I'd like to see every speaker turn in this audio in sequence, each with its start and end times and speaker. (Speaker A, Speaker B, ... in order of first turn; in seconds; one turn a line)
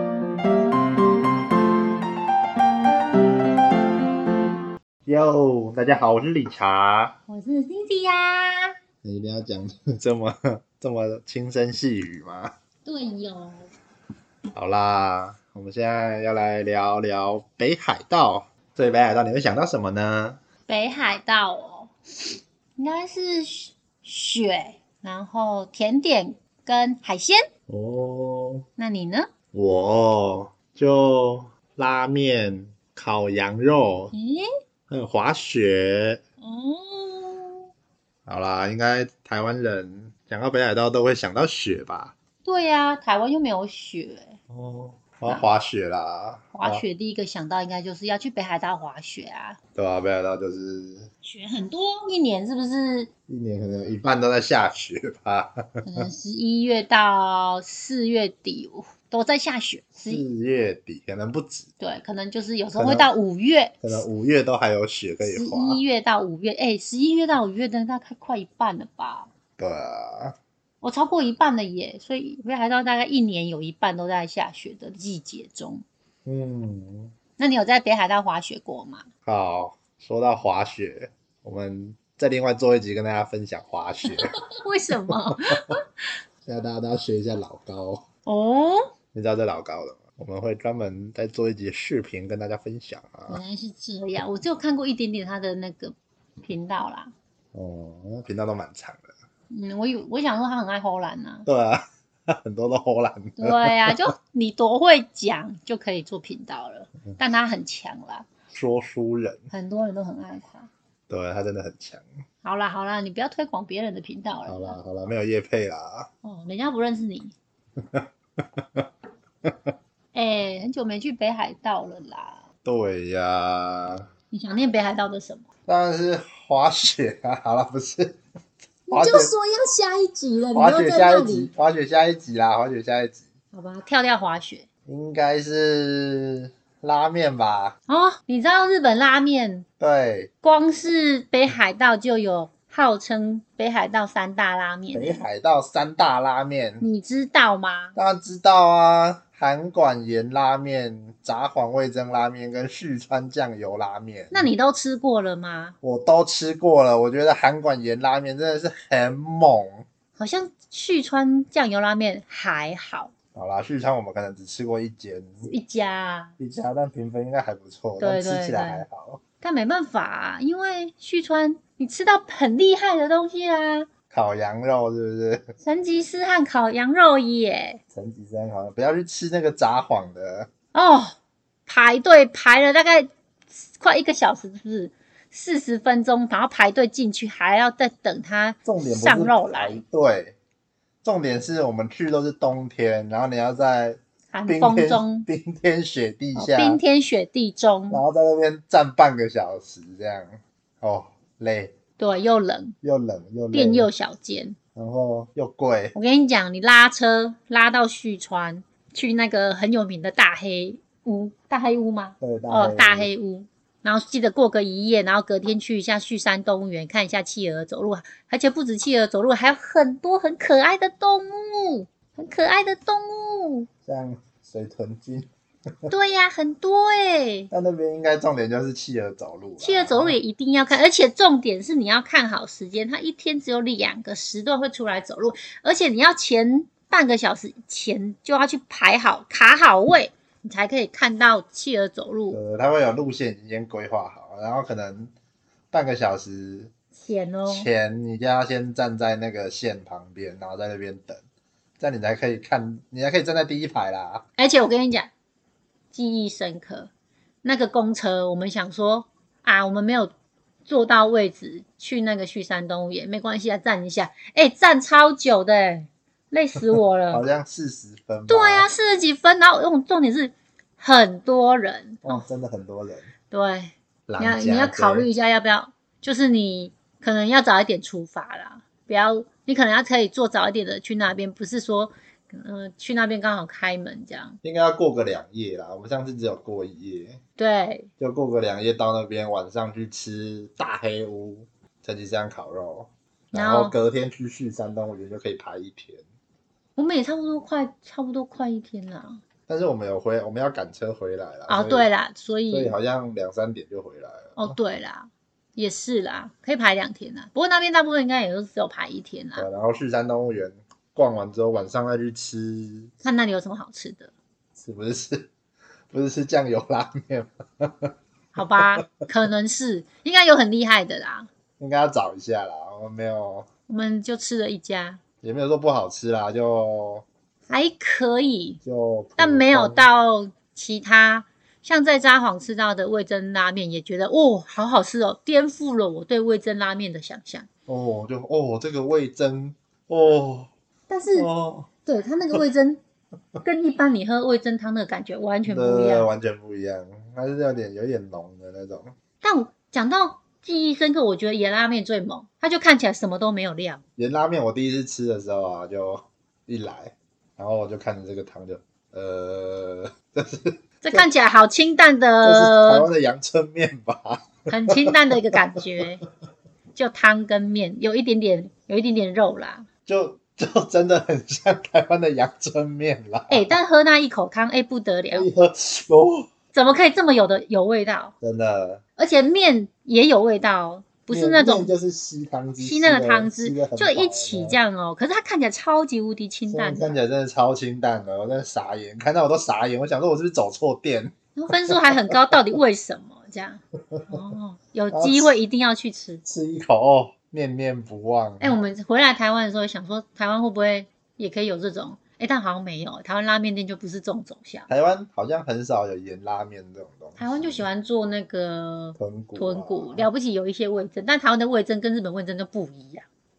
Speaker A: 5.1-7.2
Speaker B: 7.3-8.8
Speaker A: 9.0-12.5
Speaker B: 12.8-13.7
Speaker A: 14.5-20.4
Speaker B: 20.7-21.9
Speaker B: 22.8-27.4
Speaker A: 27.7-28.7
Speaker B: 28.8-29.3
Speaker A: 29.5-34.1
Speaker B: 34.1-34.5
Speaker A: 34.9-36.2
Speaker B: 36.4-37.7
Speaker A: 38.3-42.1
Speaker B: 42.4-44.4
Speaker A: 44.5-46.8
Speaker B: 46.5-49.6
Speaker A: 49.8-51.1
Speaker B: 51.2-53.1
Speaker A: 53.3-56.1
Speaker B: 55.8-60.2
Speaker A: 60.1-61.7
Speaker B: 61.8-63.8
Speaker A: 62.8-63.1
Speaker A: 63.8-65.8
Speaker B: 65.2-69.3
Speaker A: 69.6-70.4
Speaker B: 70.8-75.8
Speaker A: 76.3-77.1
Speaker B: 77.4-79.1
Speaker A: 79.3-84.4
Speaker B: 84.0-85.8
Speaker A: 86.5-88.0
Speaker B: 88.3-88.8
Speaker A: 89.1-93.4
Speaker B: 93.3-97.1
Speaker A: 97.5-99.1
Speaker B: 99.5-101.5
Speaker A: 101.5-104.0
Speaker B: 103.4-108.3
Speaker A: 108.5-109.4
Speaker B: 109.5-110.7
Speaker A: 111.1-112.0
Speaker B: 112.4-114.8
Speaker A: 114.5-116.1
Speaker B: 116.2-117.3
Speaker A: 117.8-118.9
Speaker A: 119.4-119.7
Speaker B: 120.1-122.4
Speaker A: 122.7-124.1
Speaker B: 124.3-125.5
Speaker A: 125.7-128.2
Speaker B: 128.9-131.5
Speaker A: 128.9-129.3
Speaker A: 130.6-133.2
Speaker B: 133.5-134.7
Speaker A: 134.9-137.8
Speaker B: 137.9-139.7
Speaker A: 139.8-140.3
Speaker B: 140.4-145.2
Speaker A: 144.9-146.8
Speaker B: 146.8-148.0
Speaker A: 148.0-154.5
Speaker B: 154.3-155.8
Speaker A: 155.8-159.8
Speaker B: 160.2-163.1
Speaker A: 163.3-165.5
Speaker B: 165.4-166.3
Speaker A: 166.4-169.2
Speaker B: 168.0-168.8
Speaker B: 169.4-173.9
Speaker A: 174.1-175.5
Speaker B: 175.6-177.8
Speaker A: 177.9-180.5
Speaker B: 180.7-181.2
Speaker B: 181.7-183.1
Speaker B: 183.6-189.8
Speaker A: 188.7-190.4
Speaker A: 191.0-196.8
Speaker B: 194.3-195.3
Speaker B: 196.3-198.0
Speaker A: 197.9-201.8
Speaker B: 202.0-202.8
Speaker A: 202.8-203.9
Speaker B: 203.5-204.6
Speaker A: 204.8-205.9
Speaker B: 205.9-223.7
Speaker A: 212.2-213.1
Speaker A: 223.8-225.3
Speaker B: 225.9-227.5
Speaker A: 227.5-230.2
Speaker B: 229.6-242.4
Speaker A: 242.3-245.1
Speaker A: 245.7-246.7
Speaker B: 247.0-247.7
Speaker A: 247.5-251.2
Speaker A: 251.8-254.2
Speaker B: 254.4-255.1
Speaker B: 255.9-256.9
Speaker B: 257.4-260.1
Speaker B: 260.7-267.2
Speaker A: 267.1-268.7
Speaker B: 268.3-272.2
Speaker A: 272.0-273.1
Speaker B: 273.3-284.4
Speaker A: 274.1-275.1
Speaker A: 284.4-287.2
Speaker B: 287.4-287.9
Speaker A: 288.0-296.0
Speaker B: 293.3-293.8
Speaker B: 296.8-299.2
Speaker A: 299.5-301.9
Speaker B: 301.5-302.8
Speaker A: 302.5-304.6
Speaker B: 304.4-309.5
Speaker A: 309.4-312.9
Speaker B: 313.0-314.1
Speaker A: 314.6-315.3
Speaker A: 315.9-319.0
Speaker B: 318.4-321.3
Speaker A: 321.6-323.5
Speaker B: 323.7-325.0
Speaker A: 325.2-327.1
Speaker B: 327.5-328.6
Speaker A: 328.6-329.9
Speaker B: 329.2-337.5
Speaker A: 337.7-340.5
Speaker B: 340.9-341.3
Speaker A: 341.2-341.7
Speaker B: 341.9-342.8
Speaker B: 343.4-346.1
Speaker A: 345.4-348.9
Speaker B: 349.2-353.8
Speaker A: 354.0-361.1
Speaker B: 360.9-362.9
Speaker A: 362.2-365.6
Speaker B: 364.5-366.0
Speaker B: 366.8-369.7
Speaker A: 369.9-373.5
Speaker B: 373.3-375.3
Speaker A: 375.1-376.3
Speaker B: 376.5-378.1
Speaker A: 378.2-378.8
Speaker B: 379.0-381.7
Speaker A: 381.1-384.6
Speaker B: 382.6-387.0
Speaker A: 386.5-391.1
Speaker B: 391.4-396.2
Speaker A: 391.7-392.4
Speaker A: 393.9-394.2
Speaker A: 394.9-395.4
Speaker A: 396.2-398.6
Speaker B: 398.4-404.7
Speaker A: 404.7-407.6
Speaker B: 407.2-413.1
Speaker A: 409.0-410.1